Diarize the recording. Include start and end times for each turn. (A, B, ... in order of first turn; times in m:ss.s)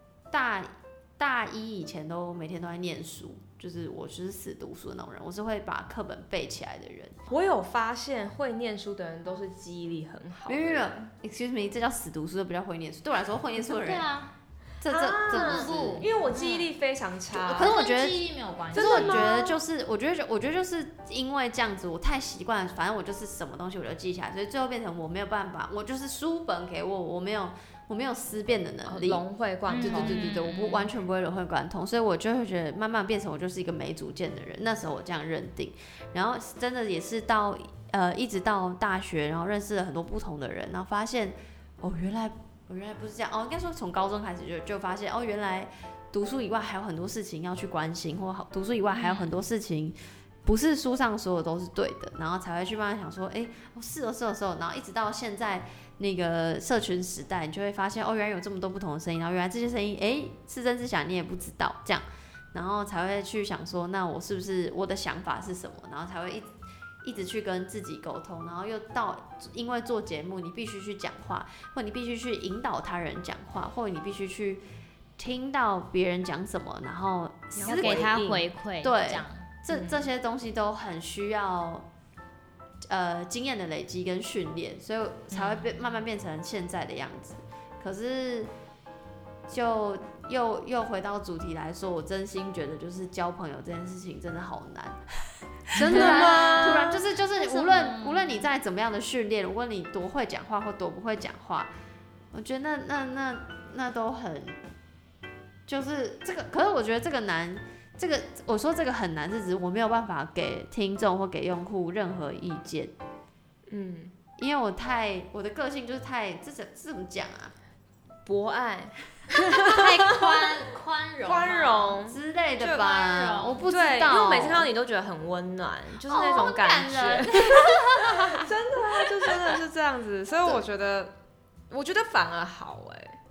0:00.3-0:07.2 A
0:07.3-0:10.9 B
0:10.5-0:14.1 A
0:13.6-0:14.3 C
0:14.8-0:16.1 A
0:14.9-0:17.8 B
0:15.3-0:16.7 C
0:17.3-1:06.5 A
0:17.5-0:19.4 C
0:18.7-0:19.6 B
0:28.9-0:30.3 B
0:29.7-0:30.9 C
0:48.9-0:49.4 C
1:07.0-1:14.6 A
1:15.2-1:21.9 A
1:17.6-1:18.4 B
1:17.6-1:19.5 C
1:19.7-1:20.1 B
1:22.8-1:28.5 A
1:25.3-1:25.6 C
1:29.5-1:35.0 A
1:35.7-1:41.7 A
1:35.8-1:37.0 B
1:35.8-1:38.5 C
1:42.3-1:44.6 A
1:45.7-1:52.9 A
1:53.7-1:54.2 B
1:54.4-1:57.5 A
1:58.3-2:00.6 B
1:59.6-2:02.0 C
2:01.2-2:03.0 B
2:02.1-2:04.7 A
2:02.8-2:03.7 C
2:03.7-2:11.2 B
2:06.1-2:08.1 A
2:06.3-2:08.0 C
2:11.7-2:13.2 B